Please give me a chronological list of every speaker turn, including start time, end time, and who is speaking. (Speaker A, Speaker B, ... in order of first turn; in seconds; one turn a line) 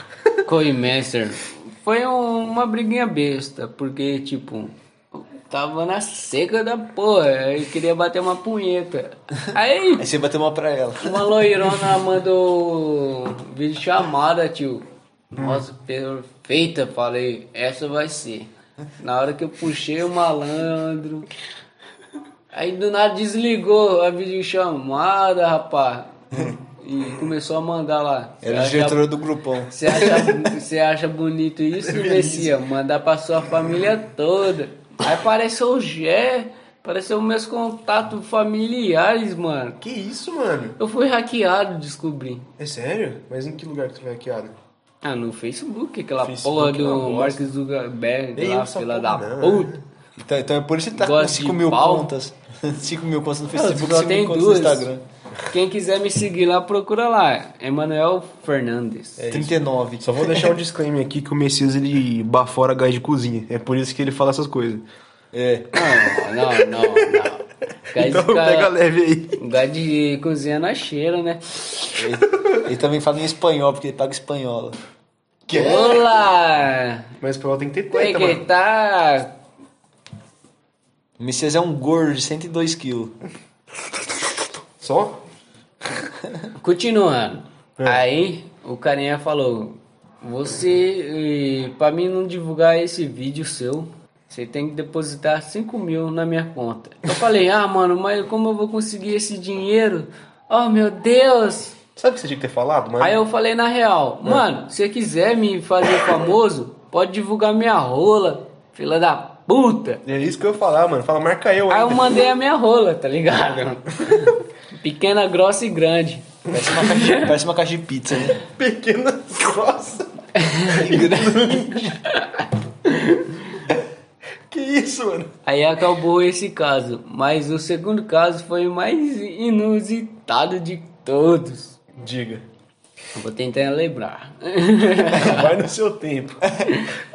Speaker A: 0.4-10.1
Speaker B: 10.0-11.7
Speaker A: 11.0-21.3
Speaker C: 15.4-15.6
Speaker A: 22.5-29.1
Speaker B: 28.4-30.2
Speaker A: 29.7-39.8
Speaker C: 31.8-32.5
Speaker C: 39.8-40.8
Speaker A: 40.8-42.5
Speaker C: 42.6-44.5
Speaker A: 45.0-49.7
Speaker C: 46.2-47.4
Speaker C: 48.4-49.8
Speaker B: 50.2-55.0
Speaker A: 51.0-52.1
Speaker A: 53.5-54.9
Speaker A: 55.5-59.3
Speaker C: 59.2-64.8
Speaker B: 59.3-60.5
Speaker B: 65.3-65.8
Speaker A: 65.7-68.7
Speaker C: 66.8-67.2
Speaker C: 67.9-69.4
Speaker A: 69.4-71.5
Speaker B: 72.0-74.8
Speaker C: 75.5-76.0
Speaker A: 75.5-77.1
Speaker C: 77.2-78.4
Speaker A: 77.9-79.4
Speaker B: 81.2-83.2
Speaker C: 84.8-85.2
Speaker A: 86.6-101.8
Speaker C: 102.0-103.2
Speaker A: 103.0-110.0
Speaker C: 110.0-112.2
Speaker A: 111.7-117.3
Speaker B: 116.5-118.4
Speaker C: 118.4-122.0
Speaker A: 120.4-123.6
Speaker B: 120.9-121.3
Speaker C: 124.5-125.3
Speaker A: 125.5-131.8
Speaker C: 132.0-132.4
Speaker A: 133.1-135.5
Speaker C: 135.1-136.5